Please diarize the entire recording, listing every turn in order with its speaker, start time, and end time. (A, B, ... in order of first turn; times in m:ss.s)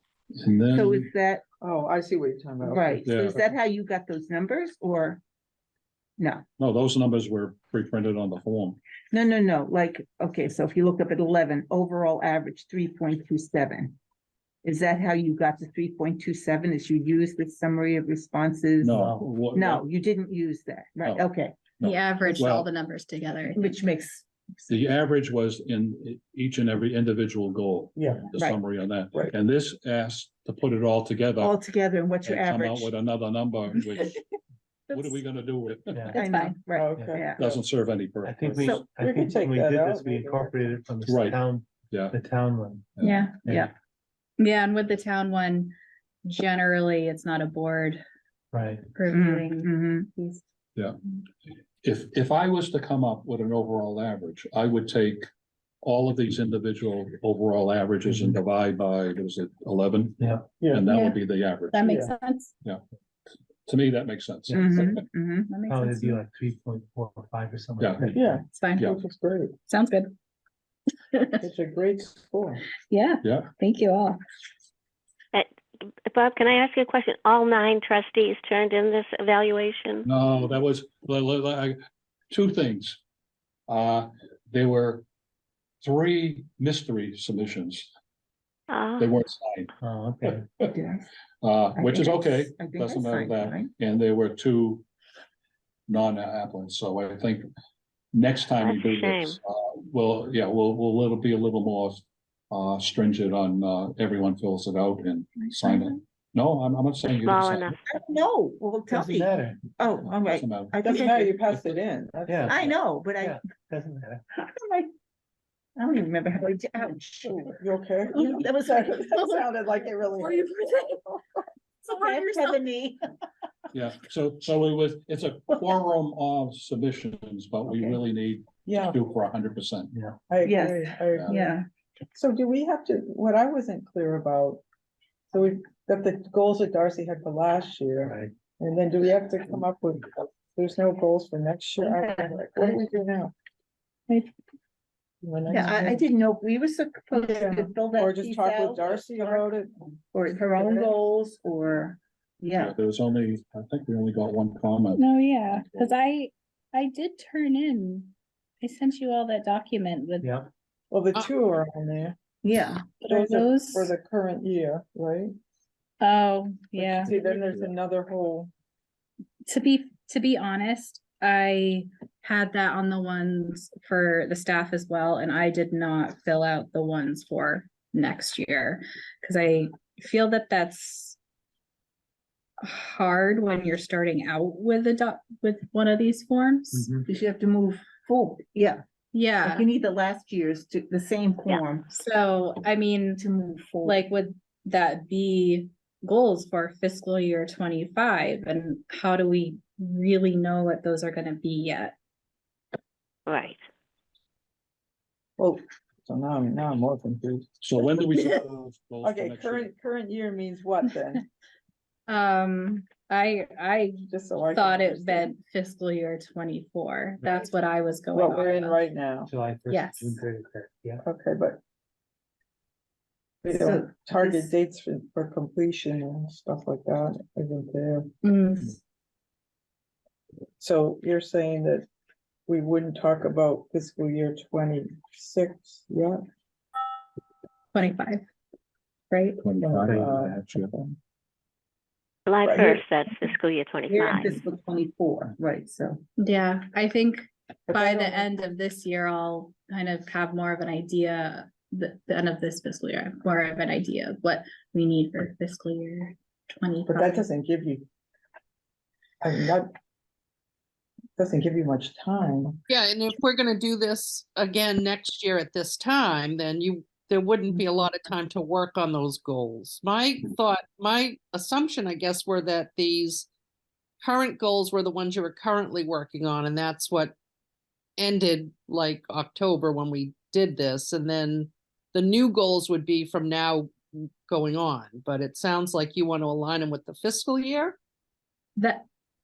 0:00.3-0:01.1 A
0:00.7-0:01.4 B
0:01.6-0:03.1 C
0:02.6-0:05.2 B
0:03.0-0:03.4 A
0:06.2-0:06.4 B
0:06.6-0:08.8 A
0:09.1-0:14.0 B
0:14.6-0:19.0 B
0:18.8-0:19.8 A
0:18.9-0:19.3 D
0:19.5-0:21.6 B
0:21.8-0:22.7 A
0:21.8-0:23.7 E
0:23.6-0:24.9 B
0:24.7-0:31.6 A
0:28.0-0:28.2 C
0:28.4-0:28.6 B
0:31.4-0:32.9 B
0:32.2-0:34.2 A
0:33.8-0:34.2 B
0:34.9-0:35.2 E
0:34.9-0:36.1 A
0:35.9-0:36.2 D
0:36.1-0:36.6 E
0:36.1-0:37.6 B
0:36.7-0:37.3 C
0:36.9-0:37.3 D
0:37.3-0:38.8 A
0:38.2-0:43.7 D
0:38.6-0:38.9 B
0:39.0-0:40.6 C
0:41.0-0:42.2 A
0:43.0-0:43.2 A
0:43.0-0:43.4 E
0:43.4-0:43.7 B
0:44.4-0:45.7 E
0:46.2-0:48.0 E
0:48.5-0:48.9 D
0:48.9-0:50.4 E
0:49.1-0:50.1 B
0:51.8-0:55.3 A
0:55.8-1:01.9 A
0:58.0-0:58.4 D
1:00.2-1:00.5 D
1:00.6-1:00.8 C
1:00.9-1:01.2 E
1:01.7-1:02.5 E
1:01.8-1:02.1 C
1:03.6-1:05.0 A
1:04.5-1:04.9 D
1:04.5-1:05.5 B
1:05.5-1:06.2 E
1:05.6-1:08.4 D
1:07.8-1:08.1 A
1:08.1-1:09.6 C
1:08.5-1:08.9 E
1:09.7-1:10.1 E
1:11.1-1:11.4 E
1:11.4-1:12.6 C
1:12.9-1:14.2 E
1:13.2-1:13.5 A
1:16.0-1:20.1 F
1:20.0-1:21.8 A
1:22.3-1:23.0 A
1:23.7-1:25.0 A
1:25.8-1:27.9 A
1:28.7-1:29.1 F
1:29.0-1:29.7 A
1:29.8-1:30.4 D
1:30.7-1:31.1 B
1:31.4-1:34.8 A
1:31.7-1:33.7 B
1:35.9-1:37.5 A
1:38.1-1:47.8 A
1:38.6-1:39.4 F
1:47.2-1:47.8 F
1:47.8-1:51.4 B
1:48.9-1:49.7 D
1:50.0-1:51.8 A
1:50.8-1:52.6 C
1:52.2-1:54.2 D
1:52.5-1:53.4 B
1:54.3-1:54.9 B
1:55.8-1:57.6 B
1:57.2-2:00.4 C
1:58.1-1:58.8 B
2:00.2-2:01.2 E
2:01.8-2:03.0 B
2:01.9-2:02.6 E
2:03.7-2:09.9 A
2:07.7-2:08.0 B
2:08.6-2:09.0 C
2:09.9-2:10.2 D
2:10.3-2:11.5 C
2:10.4-2:11.6 B
2:11.1-2:11.4 A
2:12.1-2:14.6 C
2:15.3-2:23.3 C
2:18.0-2:18.3 D
2:21.8-2:22.3 B
2:25.2-2:26.0 C
2:25.5-2:29.5 B
2:27.9-2:29.7 C
2:30.1-2:32.7 B
2:30.5-2:30.9 C
2:32.6-2:35.9 A
2:35.0-2:40.3 E
2:40.2-2:40.5 D
2:40.9-2:42.2 C
2:42.4-2:42.8 B
2:43.0-2:43.9 E
2:43.1-2:45.3 C
2:46.0-2:47.1 E
2:46.8-2:48.5 C
2:47.1-2:47.7 A
2:49.5-3:01.2 E
3:02.6-3:06.9 E
3:07.1-3:08.8 B
3:09.1-3:09.7 E
3:09.4-3:11.9 B
3:11.9-3:13.2 E
3:13.2-3:14.0 B
3:13.8-3:21.9 E
3:23.3-3:23.6 F
3:25.4-3:27.5 C
3:27.6-3:29.7 A
3:29.0-3:31.2 C
3:32.1-3:38.8 E
3:34.1-3:35.3 C
3:38.1-3:39.3 C
3:39.3-3:41.0 D
3:39.7-3:40.2 E
3:41.0-3:41.6 C
3:43.4-3:48.1 C
3:43.5-3:44.5 B
3:48.2-3:48.8 E
3:50.6-3:51.8 C
3:52.5-3:56.2 C
3:57.7-3:58.2 E
3:59.1-3:59.4 E
3:59.4-4:00.7 A
3:59.6-4:01.0 C
3:59.8-4:00.2 D
4:02.3-4:04.4 F
4:02.4-4:02.8 C
4:03.9-4:06.0 B
4:06.2-4:17.2 E
4:07.7-4:08.3 C
4:16.9-4:17.8 C
4:19.2-4:19.7 C
4:21.2-4:22.6 C
4:22.7-4:33.3 G
4:34.0-4:37.1 G
4:38.0-4:47.8 G
4:48.6-4:48.8 E